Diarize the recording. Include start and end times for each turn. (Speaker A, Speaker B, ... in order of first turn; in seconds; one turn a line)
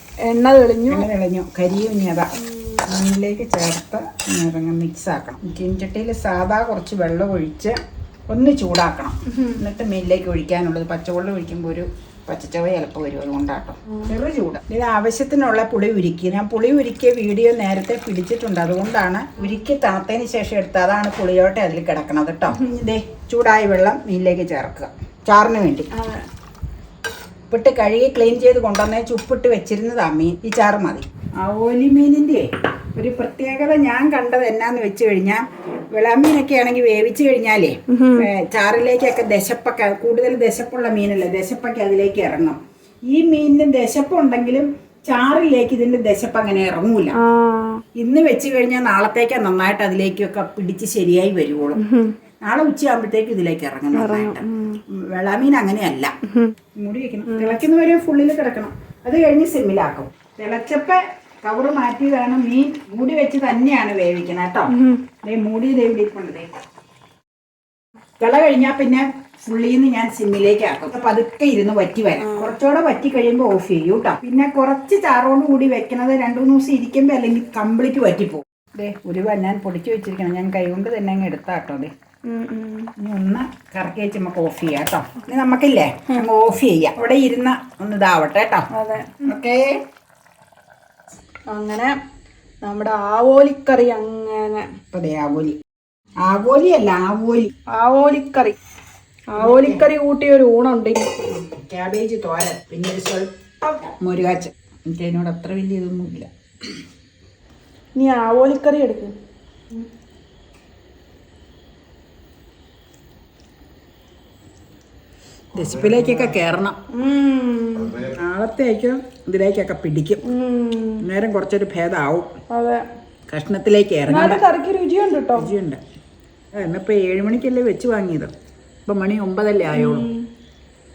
Speaker A: 0.2-1.1
Speaker B: 0.9-2.3
Speaker A: 2.4-2.8
Speaker B: 2.8-7.7
Speaker B: 8.3-25.9
Speaker A: 25.9-26.2
Speaker B: 27.5-42.6
Speaker A: 37.9-38.3
Speaker B: 43.1-47.2
Speaker A: 47.2-47.8
Speaker B: 47.9-51.8
Speaker A: 51.8-52.1
Speaker B: 52.4-56.1
Speaker A: 53.9-54.8
Speaker A: 56.3-56.5
Speaker B: 56.8-66.5
Speaker A: 57.3-57.6
Speaker A: 64.7-65.0
Speaker B: 68.2-81.9
Speaker A: 82.2-82.9
Speaker B: 83.0-88.7
Speaker A: 88.7-89.3
Speaker B: 89.2-89.8
Speaker A: 91.5-91.9
Speaker A: 92.6-94.8
Speaker B: 94.9-95.6
Speaker B: 96.2-97.5
Speaker A: 97.7-98.6
Speaker A: 99.3-101.1
Speaker B: 99.4-99.9
Speaker B: 101.2-106.7
Speaker A: 107.9-109.1
Speaker B: 115.5-116.8
Speaker A: 116.9-118.0
Speaker B: 118.0-120.2
Speaker A: 120.2-121.0
Speaker B: 121.0-122.3
Speaker A: 122.5-122.8
Speaker B: 123.3-124.4
Speaker A: 124.1-125.5
Speaker B: 125.3-125.8
Speaker B: 126.5-128.3
Speaker B: 128.8-130.1
Speaker A: 129.7-130.3